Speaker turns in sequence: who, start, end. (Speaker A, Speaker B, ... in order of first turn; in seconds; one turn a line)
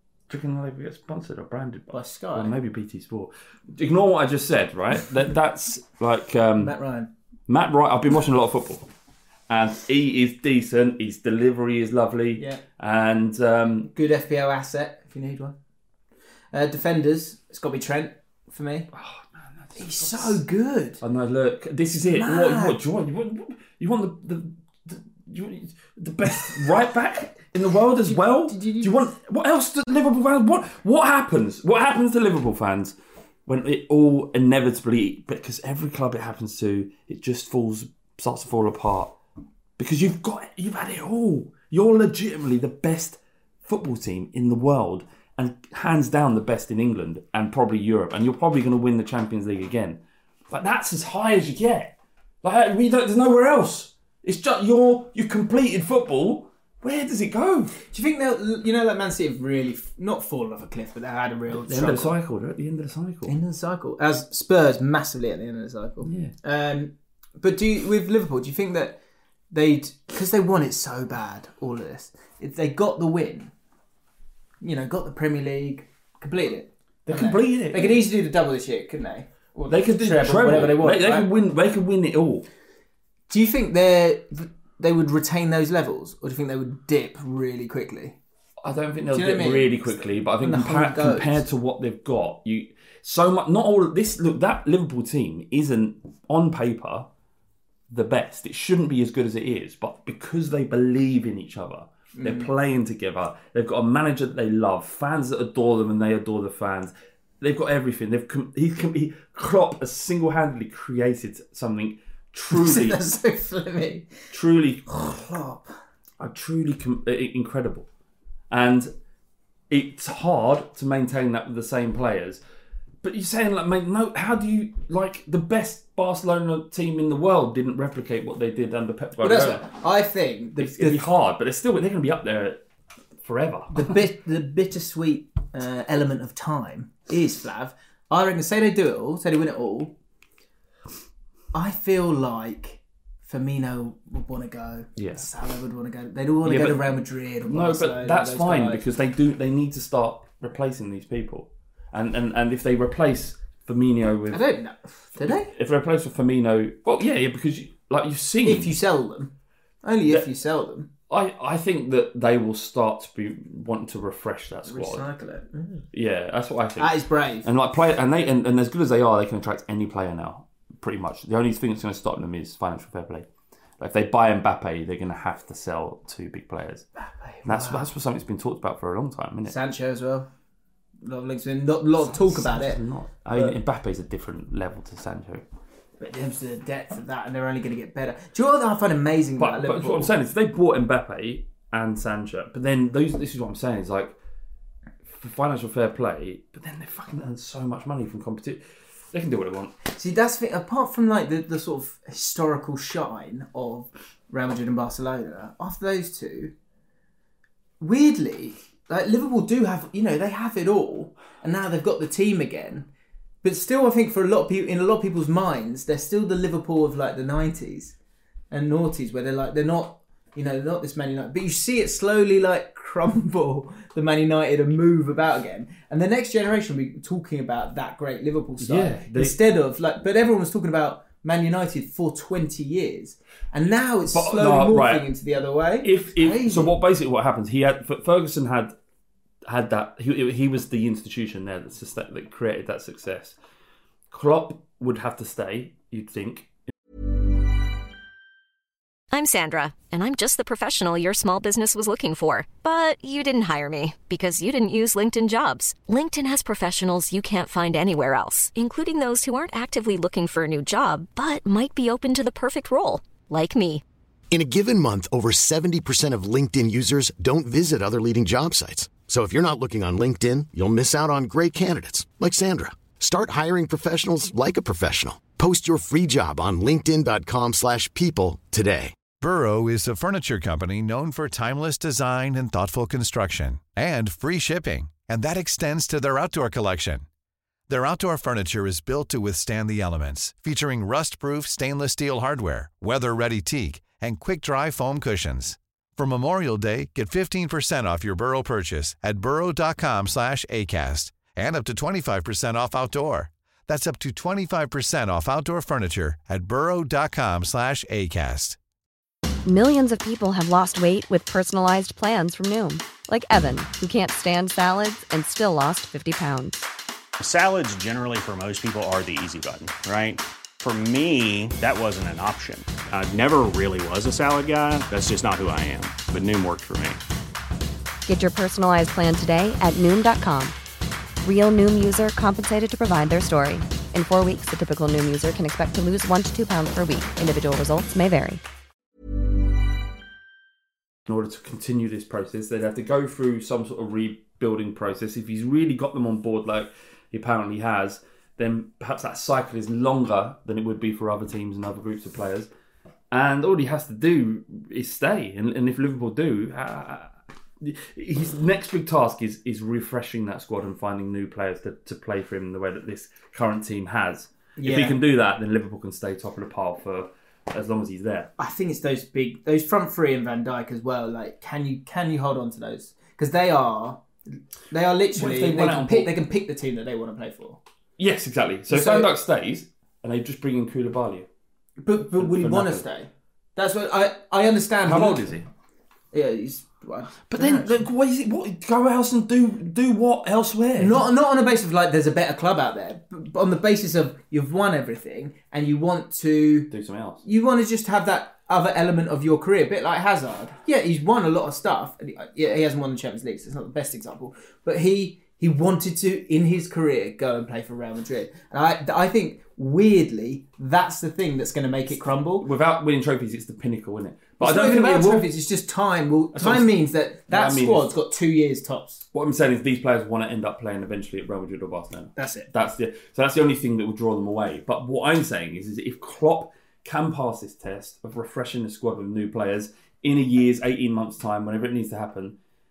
Speaker A: 0.3-6.7
Speaker B: 1.9-2.5
Speaker B: 6.6-7.1
Speaker A: 7.5-8.9
Speaker A: 9.5-13.9
Speaker B: 13.9-15.6
Speaker B: 16.5-18.9
Speaker A: 18.9-20.4
Speaker B: 19.8-21.0
Speaker A: 21.0-39.1
Speaker B: 22.0-22.8
Speaker B: 28.1-29.1
Speaker A: 39.8-50.0
Speaker A: 50.5-51.9
Speaker A: 52.4-57.7
Speaker B: 57.9-62.1
Speaker A: 61.5-63.3
Speaker B: 63.2-69.0
Speaker A: 66.0-66.3
Speaker B: 69.5-73.5
Speaker B: 74.6-81.3
Speaker A: 77.1-78.0
Speaker A: 79.7-82.5
Speaker B: 83.3-88.2
Speaker A: 88.6-97.1
Speaker B: 89.1-91.4
Speaker A: 97.9-113.0
Speaker B: 102.2-102.5
Speaker B: 112.5-114.1
Speaker A: 114.3-114.9
Speaker B: 114.9-115.7
Speaker A: 116.2-117.9
Speaker A: 118.5-118.9
Speaker A: 119.7-122.4
Speaker A: 123.0-129.7
Speaker B: 129.2-131.0
Speaker A: 130.6-132.6
Speaker A: 133.2-133.9
Speaker B: 133.7-139.9
Speaker B: 141.5-148.8
Speaker A: 145.0-145.2
Speaker A: 146.4-154.4
Speaker B: 154.3-155.5
Speaker A: 155.2-158.7
Speaker B: 158.4-159.3
Speaker B: 159.8-160.9
Speaker A: 161.1-165.1
Speaker B: 164.7-165.8
Speaker A: 165.9-173.2
Speaker B: 166.8-167.4
Speaker A: 173.8-176.8
Speaker B: 177.0-177.9
Speaker A: 177.4-179.6
Speaker B: 179.4-180.3
Speaker B: 181.0-182.8
Speaker A: 182.0-185.4
Speaker B: 186.0-190.1
Speaker A: 189.4-194.1
Speaker A: 195.1-198.6
Speaker A: 199.1-199.7
Speaker B: 199.9-206.5
Speaker B: 207.8-212.9
Speaker B: 213.4-217.9
Speaker B: 218.5-236.7
Speaker A: 228.6-229.4
Speaker A: 234.1-235.1
Speaker A: 235.8-238.7
Speaker A: 239.4-243.3
Speaker A: 244.1-246.5
Speaker C: 249.1-263.8
Speaker D: 264.3-278.9
Speaker E: 279.2-287.0
Speaker E: 287.7-308.6
Speaker F: 309.4-316.6
Speaker G: 317.2-327.0
Speaker F: 328.1-330.5
Speaker F: 331.2-338.4
Speaker A: 341.1-352.5
Speaker A: 353.1-368.3
Speaker B: 364.6-364.9
Speaker B: 368.4-374.0
Speaker B: 374.7-377.6
Speaker A: 375.1-376.1
Speaker A: 378.0-381.3
Speaker B: 378.7-379.1
Speaker B: 381.8-385.4
Speaker A: 382.2-382.8
Speaker A: 384.9-385.4
Speaker B: 386.1-387.8
Speaker A: 387.3-391.0
Speaker B: 390.8-396.7
Speaker A: 396.7-397.2
Speaker B: 397.2-412.5
Speaker A: 412.4-415.3
Speaker B: 414.4-419.0
Speaker A: 416.3-417.9
Speaker A: 419.1-432.4
Speaker B: 422.1-422.5